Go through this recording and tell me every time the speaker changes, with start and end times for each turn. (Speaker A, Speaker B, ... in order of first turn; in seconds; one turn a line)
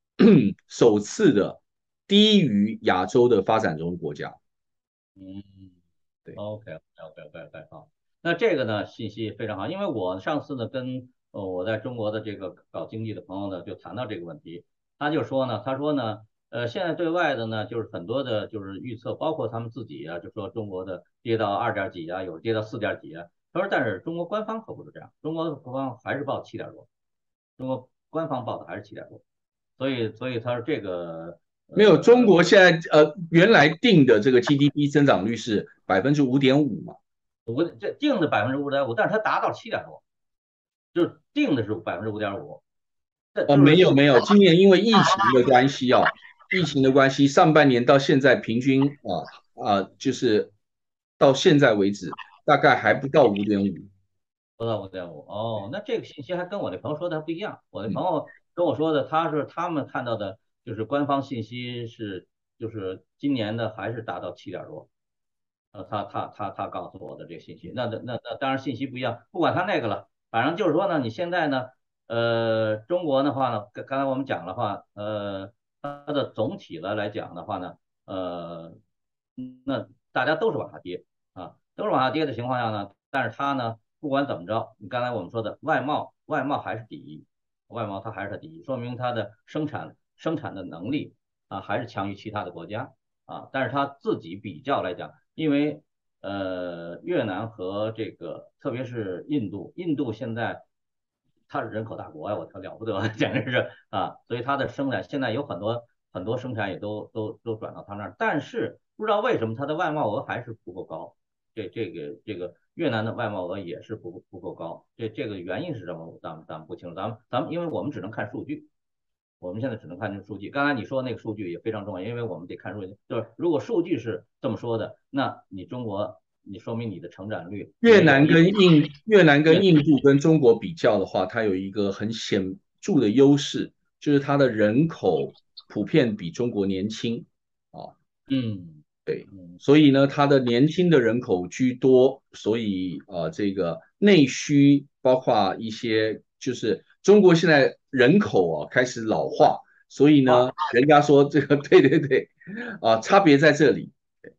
Speaker A: 0.2-4.4
Speaker B: 5.2-5.8
Speaker B: 6.3-26.9
Speaker B: 27.6-29.2
Speaker B: 29.8-32.5
Speaker A: 31.8-37.0
Speaker B: 37.5-40.0
Speaker B: 40.9-42.6
Speaker B: 43.3-44.0
Speaker A: 43.5-50.5
Speaker A: 51.2-53.9
Speaker B: 54.6-64.9
Speaker B: 65.7-78.8
Speaker B: 79.4-100.6
Speaker B: 101.5-118.7
Speaker B: 119.4-128.5
Speaker A: 127.8-137.9
Speaker B: 138.3-139.6
Speaker A: 139.1-153.9